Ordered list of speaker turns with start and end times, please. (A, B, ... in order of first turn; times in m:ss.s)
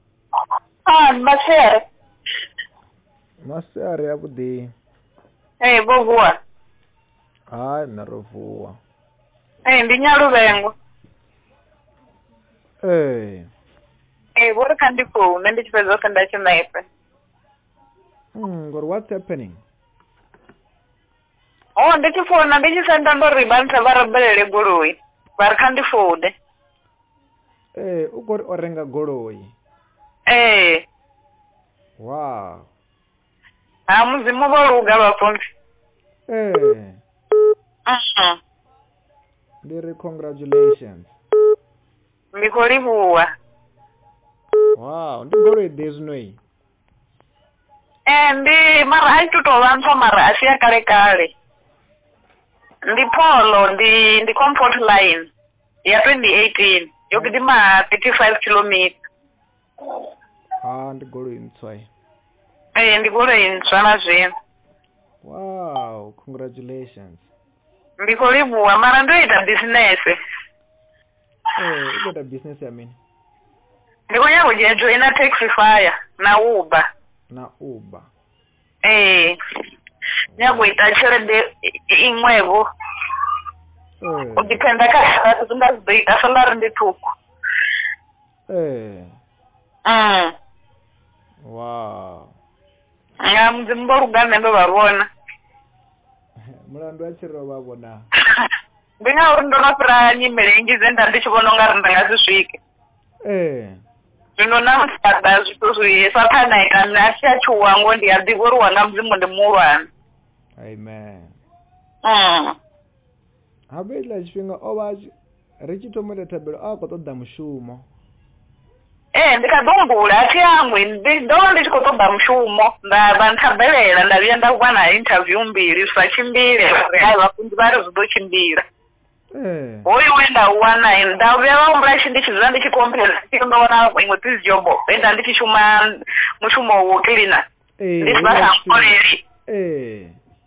0:00.9-0:01.8 A
0:03.4-0:04.7 B
0:05.6-0:06.4 A
0:07.5-0:08.8 B
0:09.7-0:10.7 A
0:12.8-0:13.5 B
0:14.4-0:16.9 A
0:18.3-0:19.6 B
0:21.8-0:26.4 A
0:27.8-0:29.5 B
0:30.3-0:30.8 A
0:32.0-0:32.7 B
0:33.9-0:35.5 A
0:36.3-0:37.0 B
0:37.9-0:38.4 A
0:39.6-0:41.2 B
0:42.3-0:43.3 A
0:44.8-0:46.4 B
0:48.1-0:51.3 A
0:52.9-0:55.3 A
0:55.9-0:59.0 A
1:00.6-1:01.9 B
1:02.8-1:04.3 A
1:05.2-1:07.3 B
1:08.0-1:10.2 A
1:11.6-1:13.0 B
1:14.1-1:16.9 A
1:17.3-1:18.1 B
1:18.8-1:19.4 A
1:20.3-1:20.7 B
1:20.4-1:22.6 A
1:24.0-1:24.6 B
1:24.4-1:27.1 A
1:28.5-1:29.2 B
1:29.9-1:30.3 A
1:31.5-1:32.4 B
1:33.2-1:35.1 A
1:36.4-1:38.1 B
1:38.2-1:42.6 A
1:43.2-1:43.8 B
1:44.4-1:49.9 A
1:50.6-1:51.4 B
1:52.0-1:52.6 A
1:53.7-1:57.9 B
1:59.1-2:08.7 A
2:09.3-2:09.9 B
2:09.8-2:17.4 A
2:17.8-2:19.0 B
2:18.0-2:19.2 A
2:19.5-2:20.2 B